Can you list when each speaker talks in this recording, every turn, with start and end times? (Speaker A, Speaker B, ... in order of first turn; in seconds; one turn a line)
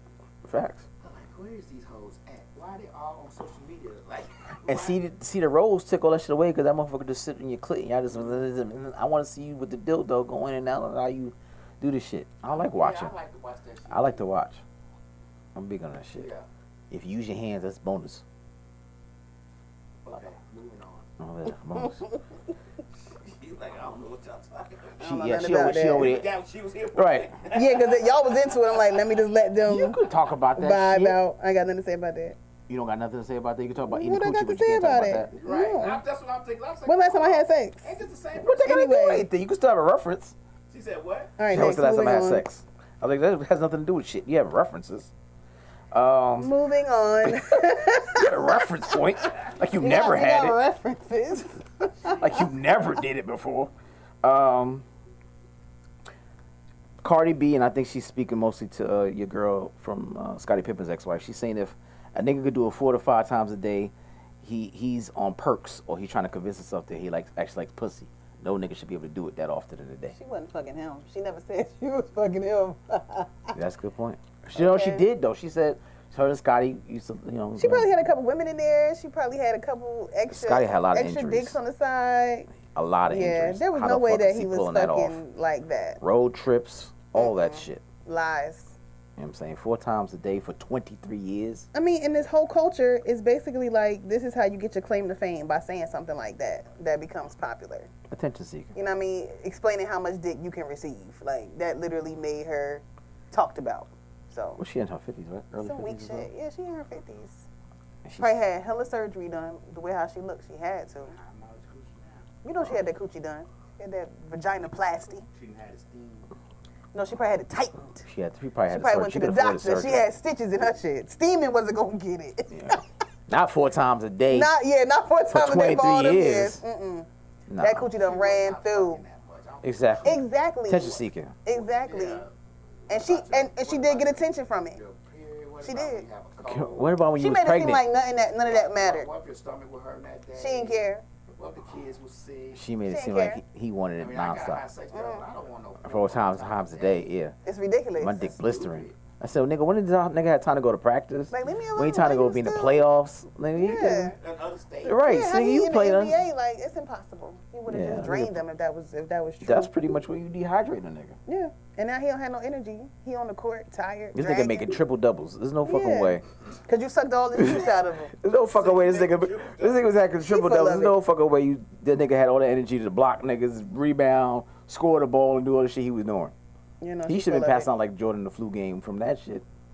Speaker A: 0.4-0.9
Speaker B: 1.0-5.0
Speaker A: 4.6-13.1
Speaker B: 12.5-14.2
Speaker A: 13.9-14.6
Speaker A: 15.6-16.3
Speaker B: 16.1-16.5
Speaker A: 16.9-18.2
Speaker B: 20.0-21.1
Speaker A: 21.2-22.0
Speaker B: 23.0-28.9
Speaker C: 25.0-26.1
Speaker A: 25.0-26.3
Speaker A: 26.9-27.3
Speaker C: 27.5-30.0
Speaker A: 29.6-31.2
Speaker C: 30.6-32.4
Speaker A: 32.7-35.3
Speaker C: 33.9-36.0
Speaker B: 35.4-38.6
Speaker C: 36.9-37.9
Speaker A: 38.4-40.4
Speaker C: 38.6-39.3
Speaker B: 40.7-41.4
Speaker C: 41.4-42.5
Speaker A: 41.5-45.1
Speaker A: 45.9-46.5
Speaker C: 46.4-52.4
Speaker A: 47.2-50.6
Speaker A: 52.1-53.7
Speaker A: 54.2-54.9
Speaker A: 57.0-70.2
Speaker C: 70.1-73.5
Speaker A: 73.5-77.9
Speaker C: 74.6-75.0
Speaker C: 77.6-82.5
Speaker A: 80.3-81.6
Speaker A: 82.7-85.2
Speaker C: 83.1-86.0
Speaker A: 86.0-87.8
Speaker C: 87.1-88.8
Speaker A: 89.2-91.7
Speaker C: 91.7-97.9
Speaker A: 98.1-98.7
Speaker C: 98.8-104.6
Speaker A: 104.6-106.3
Speaker C: 105.6-107.5
Speaker A: 108.0-108.4
Speaker C: 108.2-111.2
Speaker B: 111.1-112.3
Speaker C: 112.4-115.2
Speaker B: 115.3-116.3
Speaker C: 116.9-118.0
Speaker A: 118.0-120.1
Speaker C: 118.7-122.8
Speaker A: 122.5-124.5
Speaker C: 124.3-127.1
Speaker A: 125.3-126.6
Speaker A: 127.5-127.9
Speaker C: 127.6-129.0
Speaker B: 127.9-130.3
Speaker A: 129.6-131.3
Speaker C: 130.0-132.2
Speaker B: 131.8-132.3
Speaker C: 132.9-134.8
Speaker B: 132.9-136.9
Speaker C: 135.6-136.1
Speaker A: 136.4-137.8
Speaker C: 137.2-139.1
Speaker B: 138.5-140.8
Speaker C: 140.4-141.0
Speaker B: 141.3-142.6
Speaker A: 142.5-144.7
Speaker C: 142.8-143.4
Speaker B: 144.0-147.1
Speaker C: 144.9-145.3
Speaker A: 145.8-147.4
Speaker C: 147.4-148.3
Speaker A: 148.0-154.2
Speaker B: 148.1-149.0
Speaker C: 151.3-152.9
Speaker C: 153.6-154.1
Speaker B: 154.1-155.1
Speaker A: 154.8-156.2
Speaker C: 155.0-159.7
Speaker A: 157.7-158.4
Speaker A: 159.4-161.2
Speaker C: 161.3-164.8
Speaker A: 164.1-166.2
Speaker C: 165.6-168.1
Speaker A: 167.4-176.3
Speaker B: 168.5-169.9
Speaker C: 170.2-171.0
Speaker C: 176.8-177.7
Speaker A: 177.1-179.4